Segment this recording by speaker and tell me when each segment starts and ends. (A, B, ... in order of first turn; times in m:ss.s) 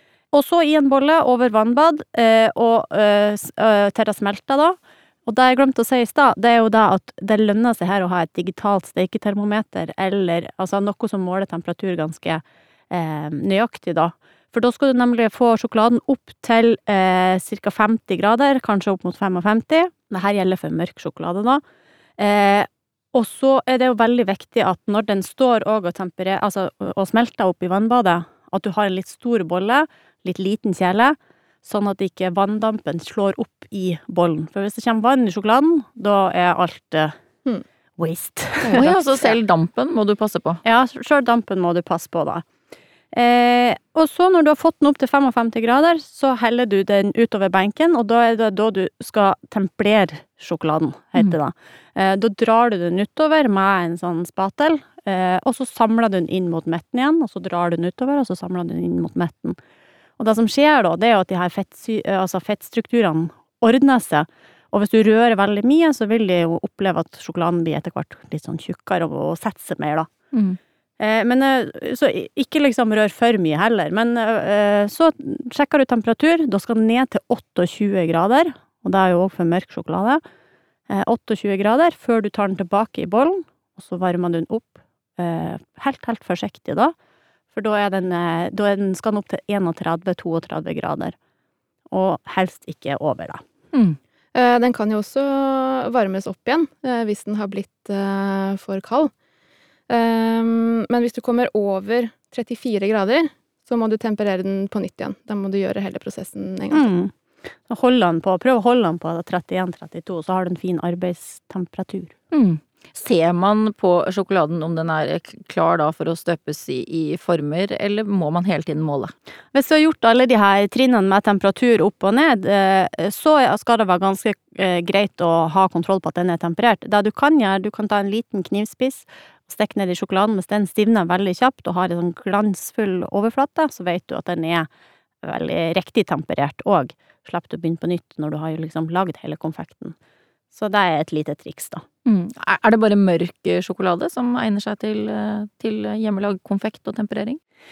0:00.3-0:21.6 A
0:22.2-0:37.1 A
0:38.0-0:39.4 A
0:38.7-0:40.6 B
0:40.6-0:42.4 A
0:43.1-0:59.6 A
1:00.2-1:10.1 A
1:10.3-1:10.6 B
1:11.0-1:20.2 A
1:20.9-1:26.9 A
1:27.5-1:31.1 A
1:31.9-1:33.4 A
1:33.7-1:34.0 B
1:34.3-1:39.1 C
1:39.9-1:46.9 C
1:46.7-1:47.1 A
1:47.7-1:52.1 A
1:52.3-1:59.1 B
1:59.5-2:14.7 A
2:15.2-2:19.9 A
2:20.5-2:21.8 A
2:22.0-2:27.4 B